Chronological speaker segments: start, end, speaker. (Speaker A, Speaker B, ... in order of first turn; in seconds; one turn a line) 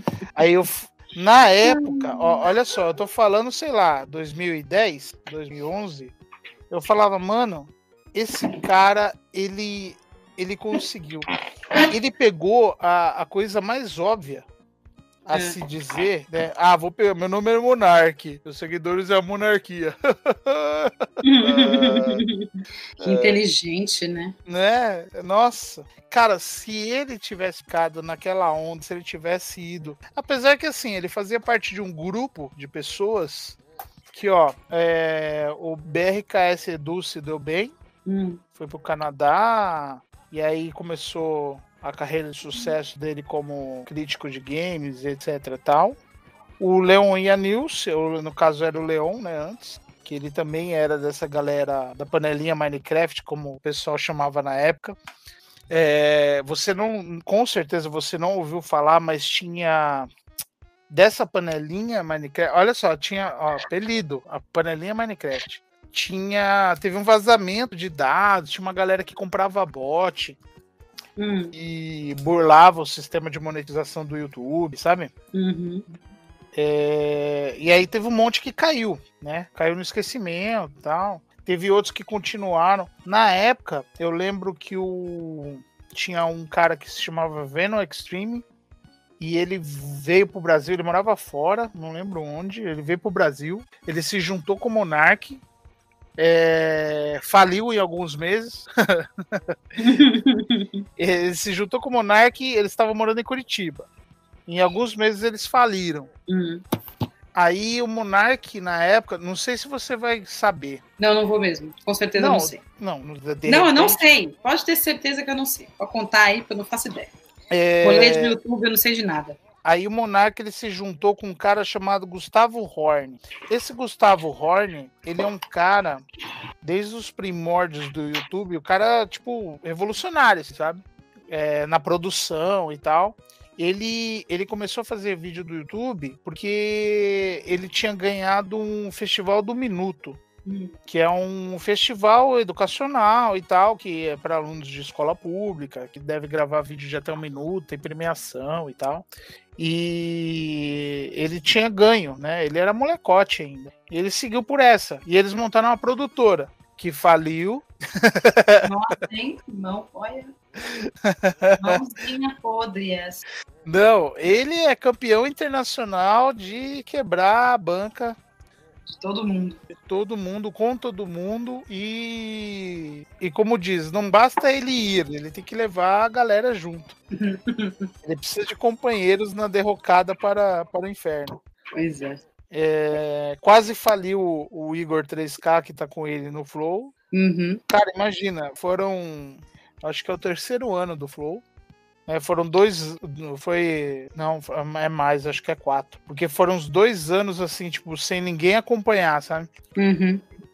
Speaker A: 0.3-6.1
Speaker B: 1.6-2.4
Speaker A: 6.7-11.3
Speaker A: 11.8-14.4
Speaker A: 15.2-22.2
Speaker B: 21.2-24.3
Speaker A: 23.0-23.4
Speaker A: 24.5-33.6
Speaker A: 34.1-37.7
Speaker B: 38.0-38.4
Speaker A: 38.5-46.0
Speaker A: 46.6-55.0
Speaker A: 55.7-60.1
Speaker A: 60.9-70.4
Speaker B: 71.2-71.5
Speaker A: 71.5-75.1
Speaker B: 75.3-75.8
Speaker A: 76.5-88.4
Speaker A: 89.2-95.4
Speaker A: 96.2-99.4
Speaker B: 99.8-100.8
Speaker A: 101.0-103.8
Speaker A: 104.5-106.1
Speaker B: 106.3-106.6
Speaker A: 107.3-110.8
Speaker B: 111.0-112.6
Speaker A: 112.2-114.0
Speaker B: 113.5-117.1
Speaker A: 117.5-118.4
Speaker B: 117.8-119.4
Speaker A: 119.6-126.0
Speaker A: 126.6-140.2
Speaker B: 140.4-140.7
Speaker A: 140.9-149.1
Speaker A: 149.6-158.7
Speaker B: 158.6-160.3
Speaker A: 160.6-161.8
Speaker B: 161.6-163.2
Speaker A: 163.7-168.2
Speaker B: 168.9-169.6
Speaker A: 169.8-176.9
Speaker B: 177.1-177.9
Speaker A: 178.0-181.4
Speaker B: 181.7-182.2
Speaker A: 182.5-186.9
Speaker B: 187.1-187.6
Speaker A: 187.7-191.4
Speaker A: 192.1-199.5
Speaker B: 199.8-200.2